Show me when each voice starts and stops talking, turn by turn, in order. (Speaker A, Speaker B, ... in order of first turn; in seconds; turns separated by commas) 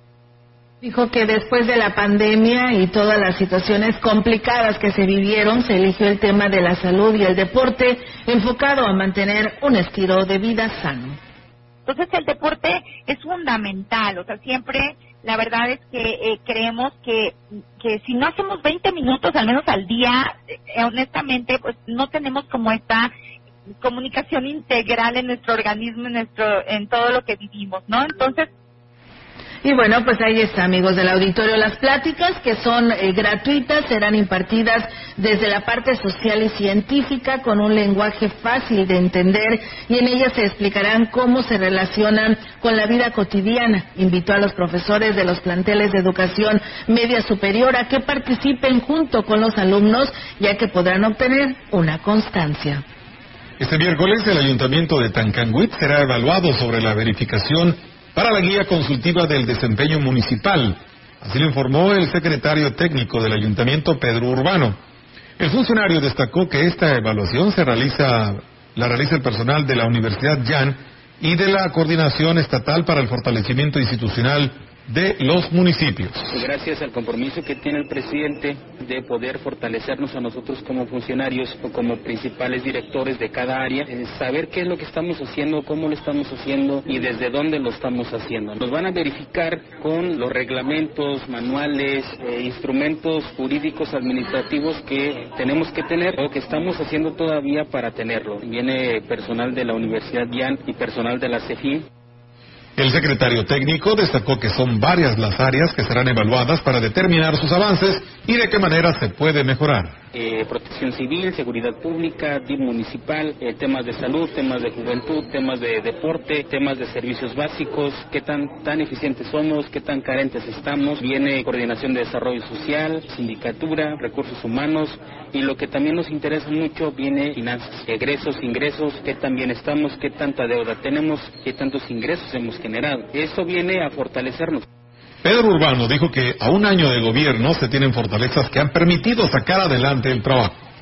Speaker A: 0.8-11.2, Speaker B: 11.8-23.1, Speaker B: 23.8-28.5, Speaker A: 29.6-52.8, Speaker C: 53.6-64.8, Speaker C: 65.4-76.3, Speaker D: 76.3-101.8, Speaker C: 102.8-110.0, Speaker D: 110.1-134.6, Speaker C: 135.2-140.5